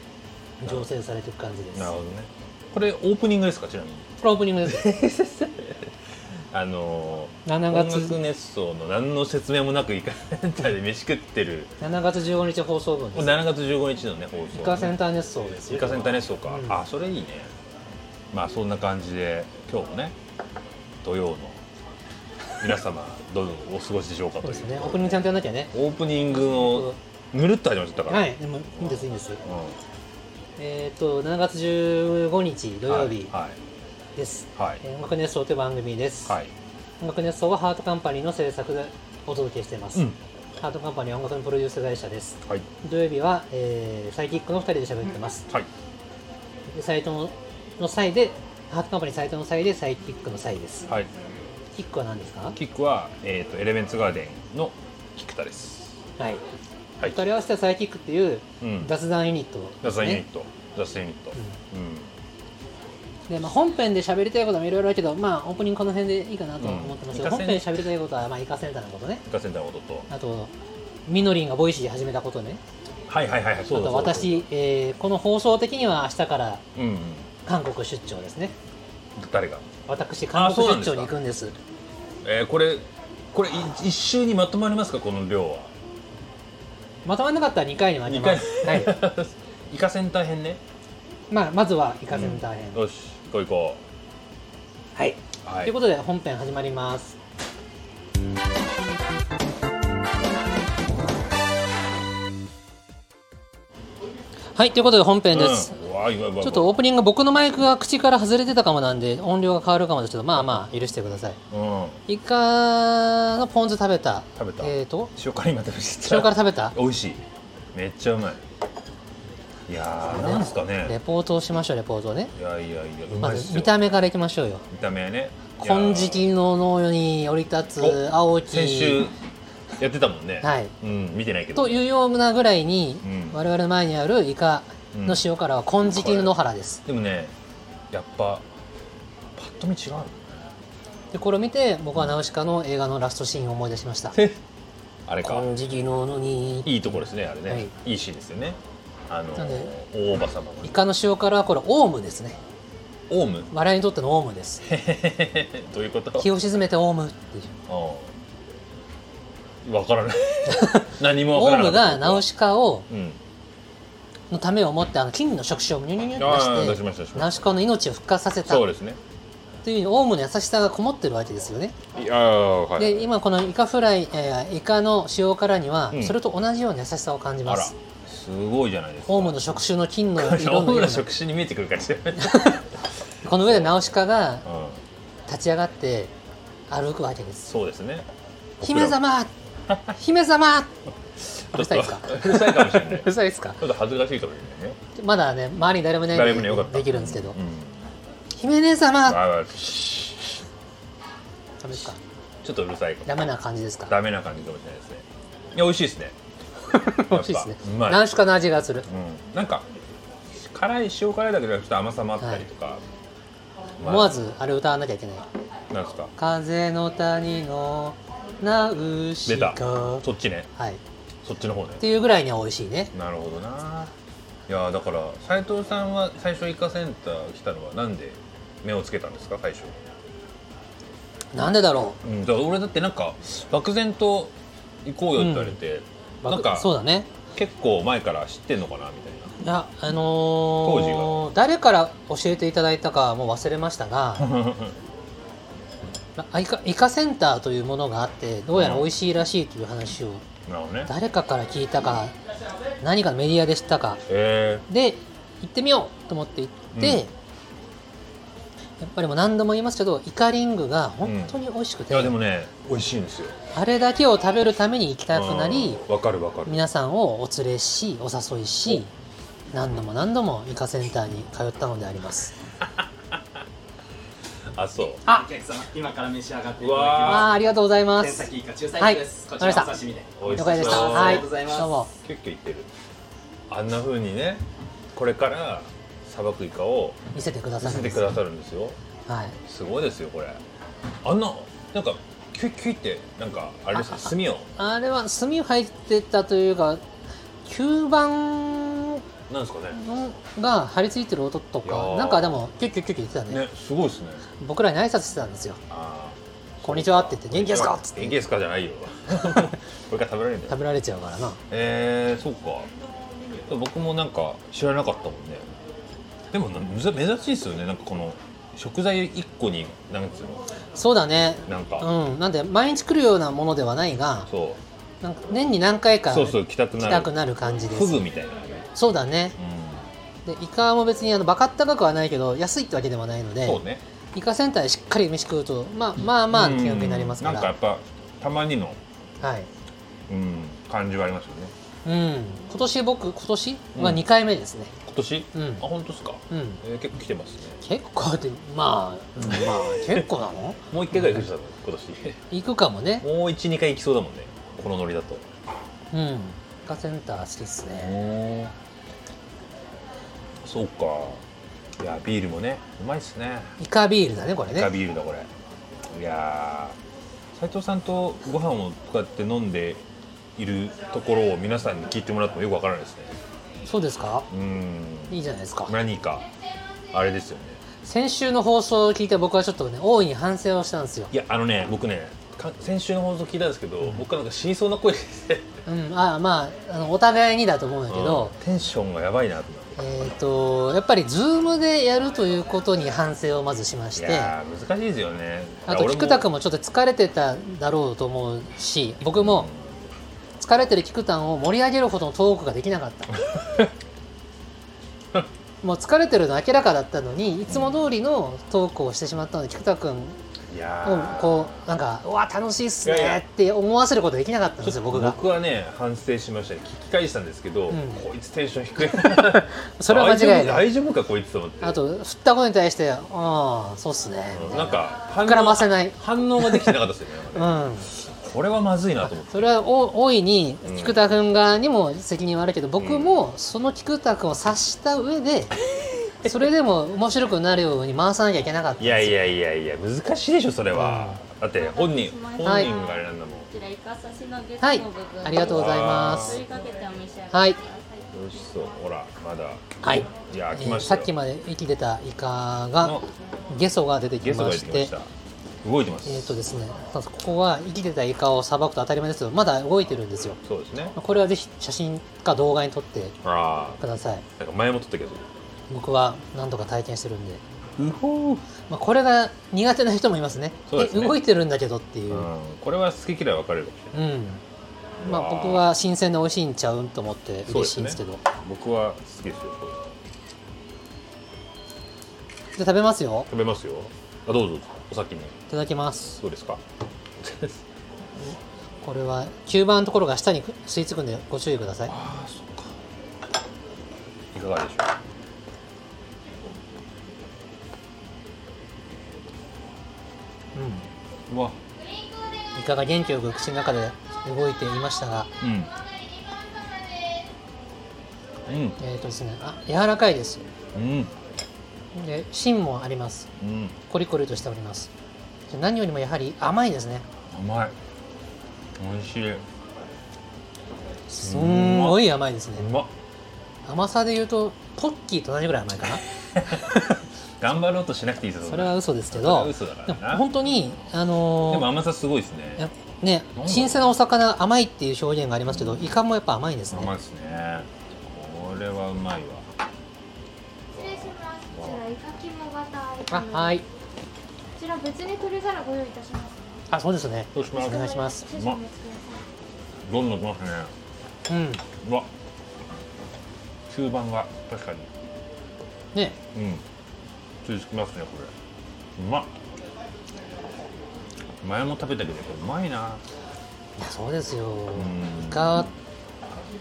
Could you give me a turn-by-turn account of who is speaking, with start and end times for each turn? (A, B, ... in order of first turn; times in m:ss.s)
0:00.6-0:01.9 A
0:01.8-0:04.1 B
0:04.2-0:04.9 A
0:04.6-0:05.9 B
0:06.5-0:11.7 B
0:07.5-0:08.2 A
0:11.8-0:13.5 A
0:13.1-0:15.0 B
0:14.6-0:16.8 A
0:15.7-0:17.5 B
0:18.3-0:20.2 B
0:21.0-0:21.6 B
0:22.6-0:29.8 B
0:24.4-0:25.7 A
0:26.3-0:27.0 A
0:28.1-0:29.4 A
0:30.6-0:33.3 A
0:32.9-0:33.6 B
0:34.2-0:36.4 A
0:34.6-0:34.8 B
0:36.3-0:36.5 B
0:37.0-0:45.5 A
0:46.7-0:50.9 A
0:51.8-0:52.6 A
0:52.5-0:56.0 B
0:56.2-0:56.4 A
0:57.0-1:00.2 A
0:58.6-0:58.9 B
0:59.8-1:02.2 B
1:03.3-1:09.2 A
1:06.6-1:07.9 B
1:09.3-1:10.1 B
1:10.1-1:10.5 A
1:11.1-1:12.6 A
1:13.1-1:14.4 B
1:13.7-1:16.6 A
1:16.8-1:17.3 B
1:17.5-1:18.6 A
1:19.2-1:19.7 B
1:19.9-1:21.5 A
1:20.3-1:21.2 B
1:22.2-1:25.7 B
1:27.0-1:29.0 A
1:28.1-1:30.6 B
1:31.3-1:32.8 A
1:32.1-1:33.8 B
1:35.0-1:37.2 A
1:35.4-1:35.7 B
1:44.6-1:45.7 A
1:45.3-1:46.7 B
1:46.4-1:51.4 A
1:51.5-1:52.0 B
1:52.1-1:55.1 A
1:54.4-1:57.2 B
1:56.0-1:56.8 A
1:57.7-1:58.4 B
1:59.7-2:01.0 B
2:00.0-2:02.3 A
2:02.4-2:03.8 B
2:03.2-2:04.7 A
2:04.7-2:06.3 B
2:05.6-2:09.1 A
2:07.8-2:09.2 B
2:09.8-2:11.8 B
2:10.4-2:10.7 A
2:11.6-2:16.8 A
2:13.0-2:13.4 B
2:14.9-2:15.2 B
2:15.9-2:17.3 B
2:17.9-2:18.5 B
2:19.4-2:20.5 B
2:21.1-2:24.2 A
2:25.1-2:25.5 B
2:25.2-2:27.7 A
2:26.6-2:30.8 B
2:29.4-2:29.8 A
2:30.6-2:32.4 A
2:33.1-2:33.5 B
2:33.5-2:34.6 A
2:34.6-2:36.3 B
2:36.2-2:37.6 A
2:37.7-2:38.1 B
2:39.6-2:42.3 B
2:40.5-2:42.9 A
2:42.9-2:43.2 B
2:44.3-2:48.7 A
2:46.2-2:47.5 B
2:48.4-2:49.0 B
2:49.6-2:51.8 A
2:52.0-2:53.1 B
2:52.8-2:57.7 A
2:55.9-2:56.2 B
2:57.4-2:59.6 B
2:59.1-3:01.1 A
3:00.2-3:03.9 B
3:02.2-3:02.6 A
3:03.2-3:04.5 A
3:04.4-3:04.8 B
3:05.3-3:06.1 A
3:06.7-3:07.5 A
3:07.5-3:08.1 B
3:08.6-3:09.0 B
3:08.6-3:09.3 A
3:09.7-3:10.0 B
3:09.9-3:10.7 A
3:11.3-3:13.1 B
3:11.5-3:13.6 A
3:13.6-3:14.8 B
3:15.0-3:17.4 A
3:16.1-3:17.9 B
3:18.4-3:19.2 A
3:19.0-3:20.4 B
3:21.6-3:22.0 A
3:22.4-3:23.2 B
3:23.1-3:23.9 A
3:23.9-3:26.2 B
3:26.7-3:28.9 A
3:27.1-3:28.1 B
3:28.9-3:29.7 B
3:30.3-3:32.8 B
3:33.8-3:34.2 B
3:33.8-3:35.3 A
3:35.7-3:36.1 B
3:36.2-3:40.8 A
3:39.3-3:40.5 B
3:41.2-3:41.8 B
3:41.8-3:42.9 A
3:42.9-3:43.9 B
3:44.5-3:49.8 B
3:51.3-3:52.0 A
3:52.0-3:54.3 B
3:54.8-3:56.7 B
3:55.2-3:55.6 A
3:56.2-3:57.1 A
3:57.3-3:59.4 B
3:59.4-4:04.4 A
4:00.6-4:01.3 B
4:04.2-4:04.8 B
4:06.2-4:10.3 A
4:08.5-4:08.9 B
4:10.5-4:10.9 B
4:10.9-4:12.2 A
4:12.8-4:14.0 A
4:14.1-4:14.6 B
4:14.7-4:17.1 A
4:16.7-4:17.0 B
4:18.8-4:22.2 A
4:21.0-4:23.4 B
4:23.5-4:25.8 A
4:25.1-4:26.6 B
4:26.5-4:28.9 A
4:29.5-4:32.3 A
4:32.6-4:33.2 B
4:34.5-4:35.0 B
4:35.1-4:37.4 C
4:36.6-4:37.4 B
4:37.1-4:39.7 A
4:38.0-4:41.7 C
4:40.2-4:41.4 B
4:40.4-4:41.9 A
4:42.0-4:42.7 B
4:43.5-4:47.0 B
4:47.1-4:48.2 A
4:47.6-4:48.8 B
4:49.1-4:49.4 A
4:49.4-4:50.4 B
4:51.0-4:54.5 B
4:53.7-4:56.8 A
4:57.5-4:59.0 A
4:59.3-4:59.8 B
4:59.7-5:03.4 A
5:01.6-5:02.4 B
5:03.3-5:04.2 B
5:04.4-5:05.6 A
5:05.7-5:10.6 B
5:06.6-5:08.2 A
5:09.1-5:09.6 A
5:10.5-5:11.4 A
5:11.5-5:12.7 B
5:13.4-5:15.5 B
5:16.3-5:20.5 B
5:20.8-5:24.3 A
5:21.5-5:21.9 B
5:24.3-5:24.6 B
5:25.0-5:28.0 A
5:26.1-5:28.7 B
5:28.7-5:29.4 A
5:29.4-5:29.9 B
5:30.2-5:33.6 A
5:33.4-5:33.8 B
5:34.2-5:37.5 A
5:36.3-5:38.8 B
5:39.2-5:39.5 A
5:40.1-5:41.5 B
5:41.8-5:44.7 A
5:43.8-5:44.0 B
5:44.8-5:47.6 B
5:45.3-5:45.6 A
5:46.3-5:46.6 A
5:47.6-5:51.2 A
5:49.2-5:50.1 B
5:50.7-5:52.2 B
5:52.3-5:53.1 A
5:53.0-5:55.3 B
5:55.9-5:58.0 A
5:57.8-5:58.5 B
6:00.4-6:01.2 B
6:01.8-6:03.6 B
6:03.6-6:04.7 A
6:04.5-6:05.3 B
6:05.9-6:06.8 B
6:07.3-6:09.8 B
6:10.4-6:13.2 B
6:13.6-6:14.3 A
6:14.3-6:16.3 B
6:15.1-6:15.8 A
6:16.9-6:17.6 B
6:17.8-6:21.1 A
6:21.1-6:25.5 B
6:25.7-6:28.4 A
6:27.9-6:29.9 B
6:29.8-6:34.3 A
6:34.0-6:36.3 B
6:35.7-6:39.5 A
6:39.2-6:39.8 B
6:40.4-6:43.2 A
6:43.2-6:43.7 B
6:45.6-6:50.2 A
6:47.5-6:47.8 B
6:50.5-6:51.7 B
6:50.8-6:55.2 A
6:52.8-6:53.2 B
6:54.6-7:01.8 B
6:57.7-6:58.0 A
6:58.8-7:00.7 A
7:01.6-7:06.8 A
7:04.3-7:09.5 B
7:07.3-7:07.9 A
7:09.0-7:15.5 A
7:10.6-7:11.0 B
7:12.8-7:13.2 B
7:16.2-7:19.2 A
7:18.8-7:23.5 B
7:20.7-7:21.2 A
7:21.5-7:28.4 D
7:22.4-7:22.7 A
7:24.6-7:26.4 A
7:25.3-7:26.6 B
7:27.3-7:27.6 A
7:28.1-7:31.1 B
7:29.8-7:33.0 A
7:32.8-7:33.1 B
7:33.5-7:34.9 A
7:34.2-7:35.1 B
7:35.6-7:36.4 B
7:36.0-7:40.4 A
7:40.4-7:41.0 B
7:41.0-7:43.2 A
7:43.2-7:43.8 B
7:43.8-7:44.2 A
7:44.4-7:45.3 B
7:45.7-7:47.4 A
7:47.8-7:48.5 B
7:48.7-7:52.3 A
7:50.7-7:51.2 B
7:52.1-7:54.0 B
7:53.9-7:54.4 A
7:55.0-7:55.7 B
7:55.0-7:58.2 A
7:57.5-8:00.0 B
8:02.6-8:03.3 A
8:03.3-8:05.4 B
8:05.5-8:06.2 A
8:06.2-8:06.6 B
8:07.2-8:07.6 B
8:08.2-8:11.9 A
8:11.9-8:12.8 B
8:14.3-8:15.0 B
8:20.6-8:20.9 A
8:21.3-8:21.6 B
8:22.6-8:25.3 A
8:25.4-8:25.7 B
8:28.5-8:28.8 B
8:28.8-8:30.5 A
8:30.7-8:31.1 B
8:32.0-8:33.3 A
8:33.4-8:33.8 B
8:33.9-8:34.9 A
8:35.5-8:37.1 A
8:37.3-8:37.8 B
8:38.8-8:39.4 B
8:41.1-8:42.7 A
8:41.2-8:42.9 B
8:43.6-8:46.0 A
8:46.2-8:46.7 B
8:46.6-8:47.0 A
8:47.4-8:50.3 B
8:48.4-8:51.7 A
8:51.5-8:52.7 B
8:52.6-8:56.9 A
8:53.3-8:53.9 B
8:55.5-8:55.9 B
8:56.7-8:59.5 B
9:00.7-9:03.6 E
9:00.8-9:01.8 B
9:03.1-9:03.6 A
9:04.6-9:06.6 E
9:06.7-9:08.3 A
9:07.4-9:08.6 B
9:07.5-9:09.3 E
9:09.8-9:10.7 B
9:11.3-9:11.6 A
9:11.8-9:12.1 B
9:13.7-9:14.9 B
9:16.3-9:16.6 B
9:17.4-9:18.3 B
9:19.0-9:19.3 B
9:21.4-9:23.0 B
9:23.8-9:25.7 A
9:24.7-9:25.7 B